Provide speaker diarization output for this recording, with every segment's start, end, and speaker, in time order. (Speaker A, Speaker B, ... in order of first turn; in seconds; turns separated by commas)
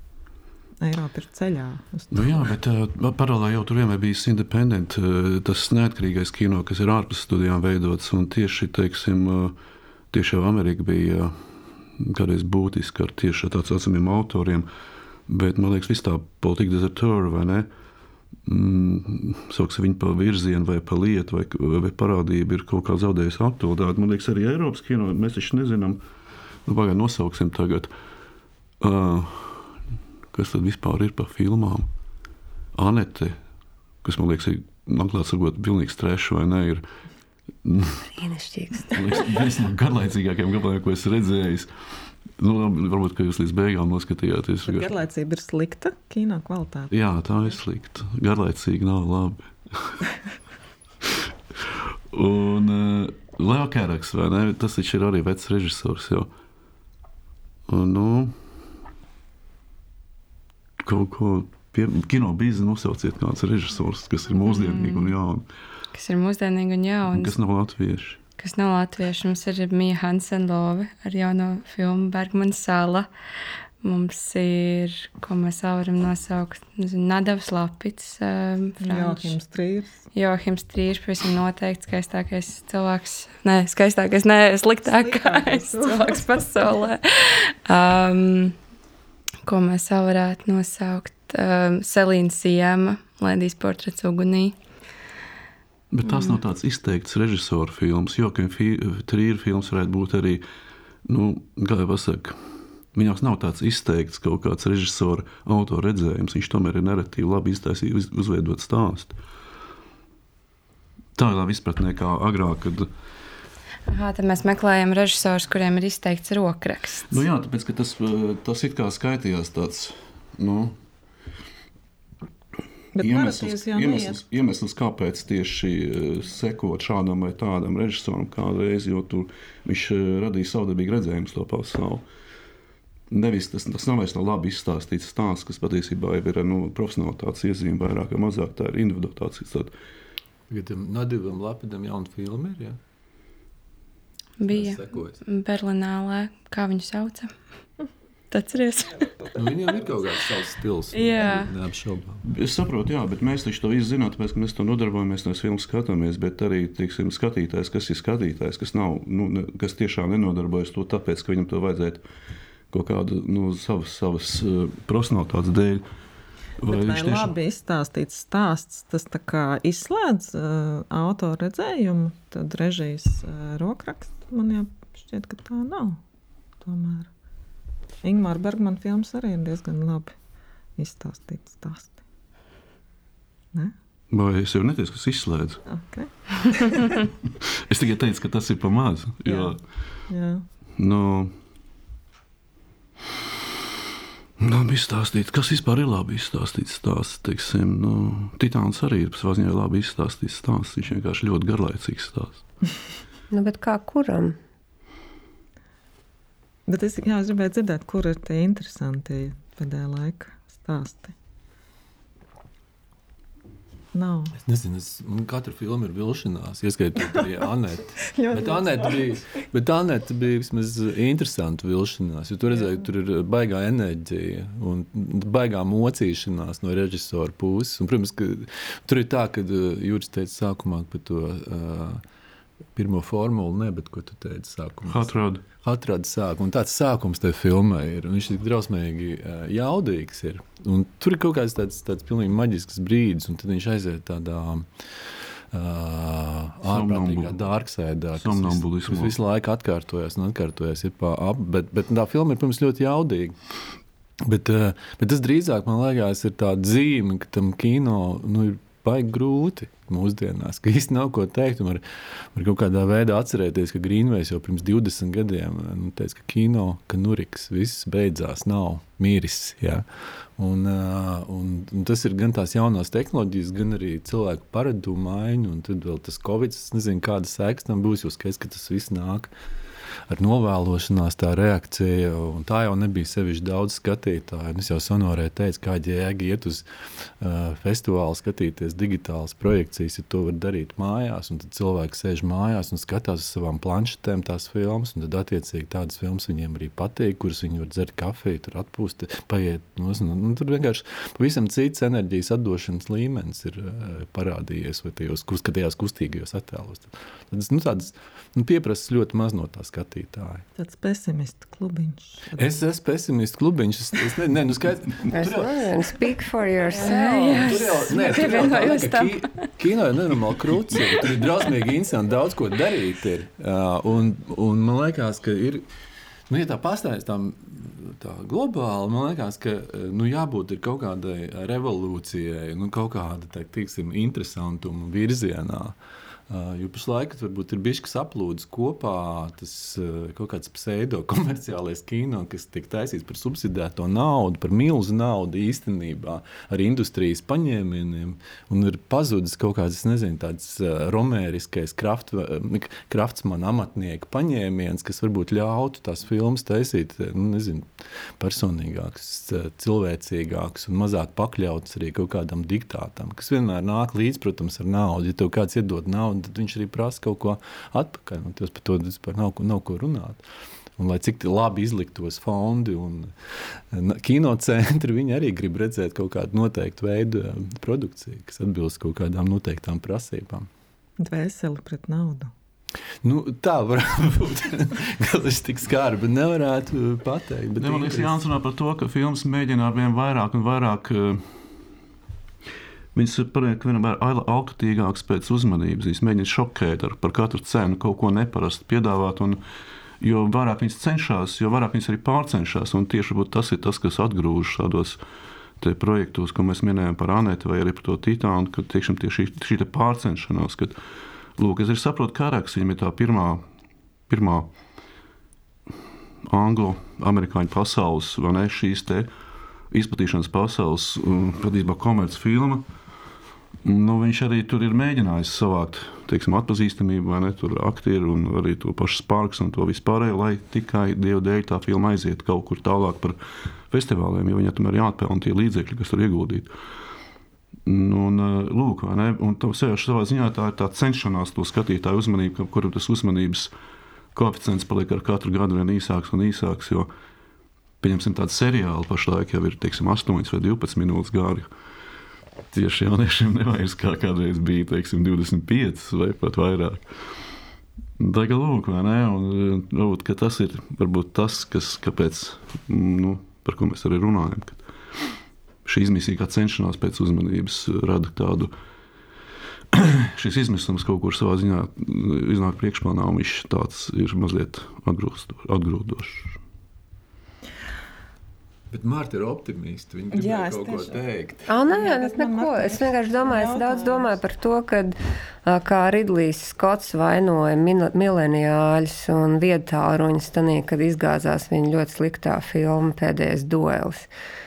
Speaker A: 0.8-2.5, Speaker B: 2.1-9.5, Speaker B: 10.1-11.4, Speaker B: 12.0-14.7, Speaker B: 15.3-17.7, Speaker B: 18.4-26.0, Speaker B: 26.6-27.9, Speaker B: 28.8-29.7, Speaker B: 30.3-31.9, Speaker B: 32.7-33.4, Speaker B: 34.0-36.8, Speaker B: 37.6-38.1, Speaker C: 38.2-39.4, Speaker B: 38.9-41.7, Speaker B: 42.4-44.9, Speaker A: 44.6-46.9, Speaker B: 46.9-50.0, Speaker B: 52.1-56.3, Speaker B: 57.7-58.4, Speaker B: 60.8-65.5, Speaker D: 64.5-65.1, Speaker D: 65.9-67.3, Speaker B: 67.1-68.2, Speaker D: 68.4-73.1, Speaker D: 73.8-79.4, Speaker A: 78.8-80.0, Speaker D: 80.1-88.5, Speaker A: 84.8-86.8, Speaker D: 89.5-94.5, Speaker B: 95.9-100.4, Speaker D: 96.1-96.3, Speaker B: 101.0-102.4, Speaker B: 102.9-109.2, Speaker B: 111.2-112.9, Speaker D: 113.8-117.2, Speaker B: 117.1-120.8, Speaker A: 123.0-124.2, Speaker B: 123.0-132.0, Speaker B: 133.1-139.7, Speaker E: 140.5-142.8, Speaker D: 144.4-147.3, Speaker E: 144.4-145.2, Speaker D: 148.3-149.1, Speaker E: 149.3-152.2, Speaker D: 150.9-151.5, Speaker B: 152.2-162.0, Speaker B: 162.7-165.8, Speaker B: 166.6-167.3, Speaker A: 166.7-176.0, Speaker A: 176.6-177.1, Speaker A: 178.0-180.1, Speaker A: 180.8-182.0, Speaker B: 184.1-185.6, Speaker A: 185.7-186.9, Speaker B: 187.7-189.6, Speaker A: 189.2-189.6, Speaker A: 190.1-190.4, Speaker B: 190.8-191.3, Speaker B: 194.4-202.4, Speaker C: 203.3-204.4, Speaker A: 206.7-211.1, Speaker A: 213.9-214.3, Speaker E: 214.4-232.0, Speaker A: 218.1-219.2, Speaker E: 232.7-253.3, Speaker B: 234.9-235.4, Speaker B: 246.7-247.4, Speaker B: 248.2-249.2, Speaker E: 254.2-261.8, Speaker E: 262.3-269.8, Speaker E: 270.4-279.3, Speaker E: 280.1-286.6, Speaker E: 287.2-310.4, Speaker A: 310.6-312.5, Speaker E: 312.3-315.7, Speaker C: 315.1-317.7, Speaker D: 316.7-319.5, Speaker E: 317.3-325.6, Speaker D: 320.8-321.0, Speaker E: 326.3-335.8, Speaker E: 336.3-370.2, Speaker E: 370.8-380.5, Speaker A: 381.0-382.3, Speaker E: 383.0-388.2, Speaker B: 387.6-391.4, Speaker B: 392.9-399.4, Speaker B: 400.0-405.0, Speaker B: 405.6-410.8, Speaker B: 411.4-413.4, Speaker B: 414.1-414.5, Speaker B: 416.3-419.1, Speaker B: 419.7-422.6, Speaker B: 423.6-433.2, Speaker B: 433.7-436.5, Speaker B: 437.6-443.5, Speaker B: 444.1-446.9, Speaker B: 447.8-451.5, Speaker B: 452.5-456.8, Speaker B: 458.0-464.6, Speaker B: 465.6-468.5, Speaker B: 469.7-476.4, Speaker E: 478.7-481.6, Speaker A: 480.1-481.0, Speaker C: 481.5-494.1, Speaker A: 481.7-484.2